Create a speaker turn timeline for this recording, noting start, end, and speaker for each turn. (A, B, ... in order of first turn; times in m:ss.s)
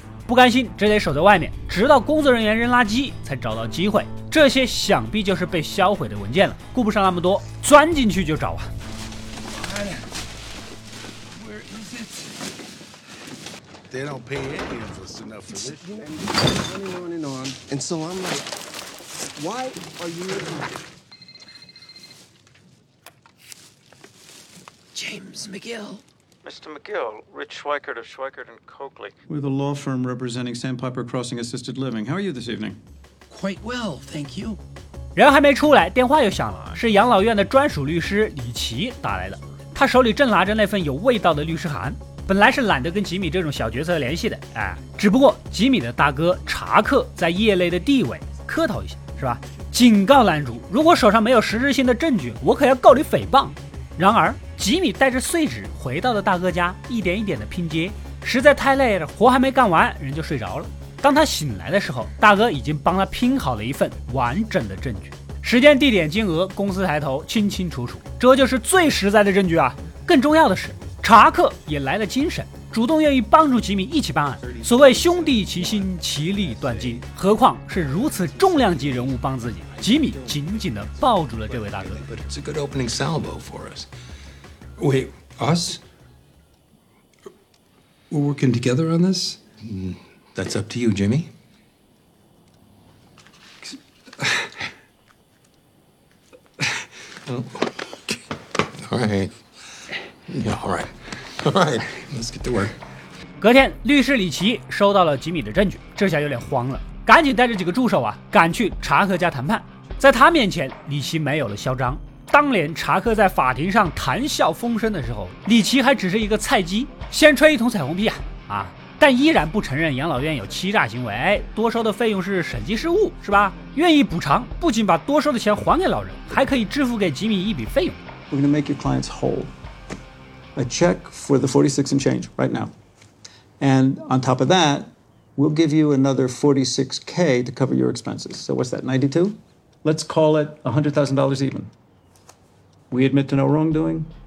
0:00.3-0:08.7 A
0:09.5-0:10.0 B
0:11.3-0:12.3 B
0:14.5-0:15.4 C
0:15.5-0:18.5 D
0:19.4-0:20.7 D
0:25.0-0:26.0 B
0:26.5-0:29.0 E
0:29.3-0:32.8 F
0:33.3-0:34.6 B
0:35.2-1:22.1 A
1:22.2-1:23.9 C
1:24.8-1:25.8 B
1:28.1-1:29.4 B
1:29.6-1:31.3 C
1:37.3-1:37.6 C
1:38.8-1:39.3 C
1:40.3-1:42.7 C
1:43.4-2:08.0 A
2:08.3-2:09.5 F
2:10.6-2:12.7 F
2:13.6-2:21.7 F
2:22.9-2:24.1 F